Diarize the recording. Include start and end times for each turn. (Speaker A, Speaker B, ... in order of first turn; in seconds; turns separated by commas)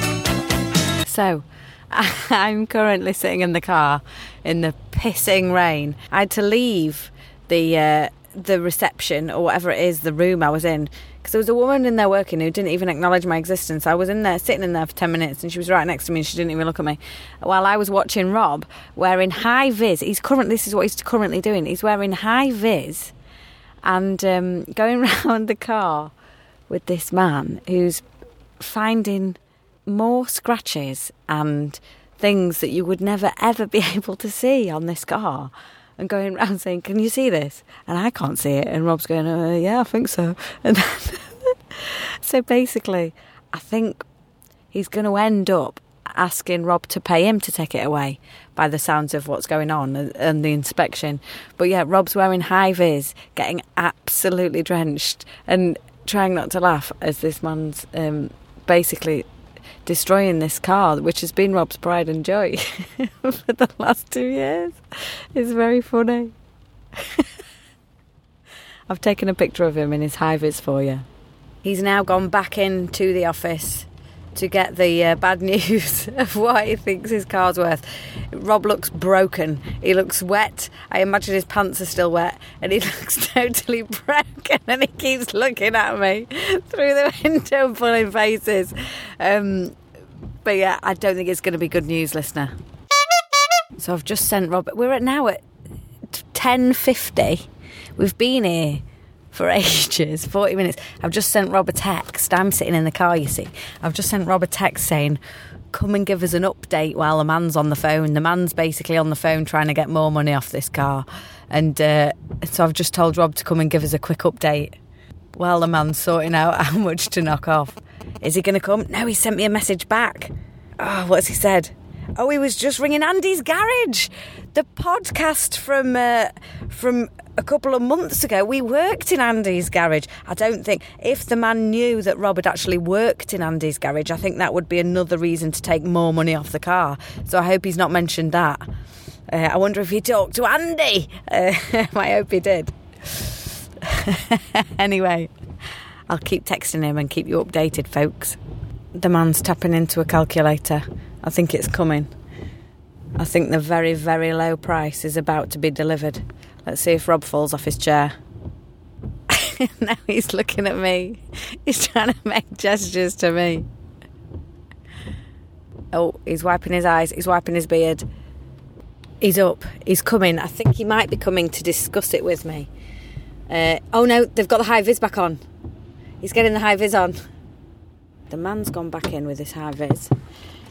Speaker A: 1.0-23.1, Speaker A: 23.8-26.1, Speaker A: 26.7-28.0, Speaker A: 28.6-44.0, Speaker A: 44.7-59.2, Speaker A: 59.8-64.8, Speaker A: 65.3-66.3, Speaker A: 67.0-67.2, Speaker A: 68.9-71.0, Speaker A: 71.6-89.8, Speaker A: 90.4-92.5, Speaker A: 93.8-95.4, Speaker A: 96.1-97.5, Speaker A: 98.0-105.2, Speaker A: 105.7-114.7, Speaker A: 115.3-138.6, Speaker A: 139.3-145.3, Speaker A: 146.1-148.4, Speaker A: 148.9-152.1, Speaker A: 153.2-158.1, Speaker A: 159.3-163.7, Speaker A: 165.9-168.0, Speaker A: 169.2-172.7, Speaker A: 173.5-175.4, Speaker A: 176.2-177.2, Speaker A: 178.3-180.1